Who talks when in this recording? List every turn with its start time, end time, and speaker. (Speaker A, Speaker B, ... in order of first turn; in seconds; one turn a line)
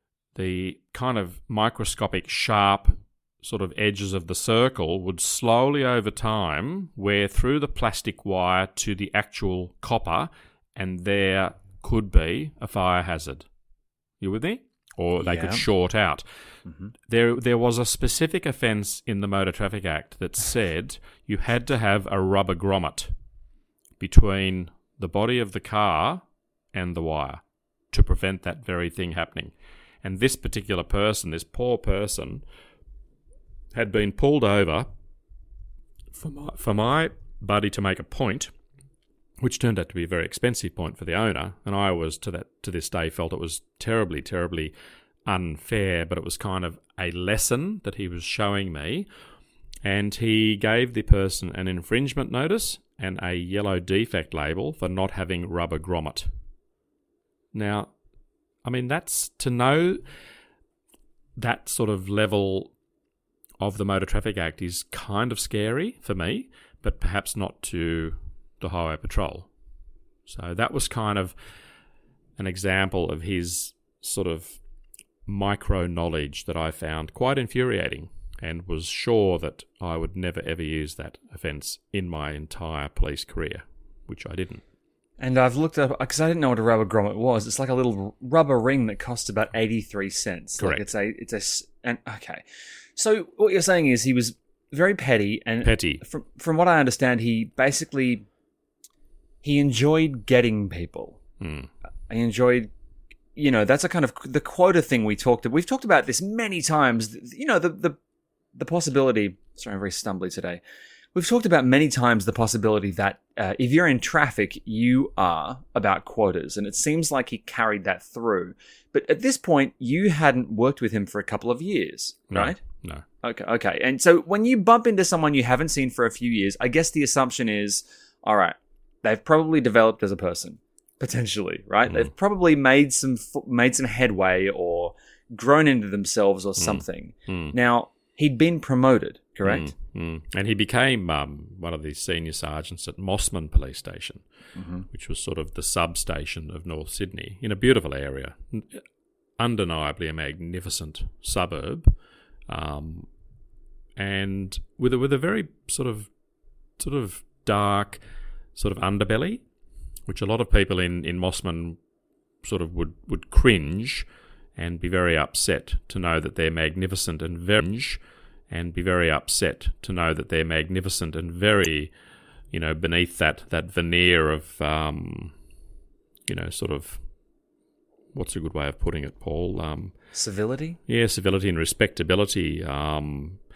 Speaker A: 0.3-13.5
Speaker A: 14.2-16.2
Speaker B: 15.2-15.7
Speaker B: 16.7-16.9
Speaker A: 17.1-23.1
Speaker A: 24.0-32.4
Speaker A: 33.7-34.9
Speaker A: 36.1-38.5
Speaker A: 39.4-44.7
Speaker A: 45.3-49.1
Speaker A: 49.8-56.3
Speaker A: 57.5-57.9
Speaker A: 58.6-60.0
Speaker A: 61.4-62.7
Speaker A: 63.6-69.5
Speaker A: 70.3-71.3
Speaker A: 72.4-74.6
Speaker A: 75.3-84.6
Speaker B: 85.2-92.4
Speaker A: 90.6-90.9
Speaker B: 93.0-98.2
Speaker A: 95.6-96.0
Speaker B: 99.4-101.2
Speaker A: 101.4-101.7
Speaker B: 102.1-102.7
Speaker B: 103.4-108.0
Speaker B: 108.5-110.6
Speaker B: 111.2-122.6
Speaker A: 122.3-123.0
Speaker B: 123.2-139.7
Speaker A: 136.6-137.6
Speaker A: 139.4-144.2
Speaker B: 144.6-144.9
Speaker A: 144.9-148.8
Speaker A: 149.4-151.9
Speaker A: 152.5-153.1
Speaker A: 154.0-156.1
Speaker A: 156.8-158.0
Speaker A: 158.6-159.4
Speaker A: 160.1-161.8
Speaker A: 162.4-171.9
Speaker A: 172.5-175.3
Speaker A: 176.3-177.0
Speaker A: 178.1-179.9
Speaker B: 180.1-180.8
Speaker A: 180.9-183.4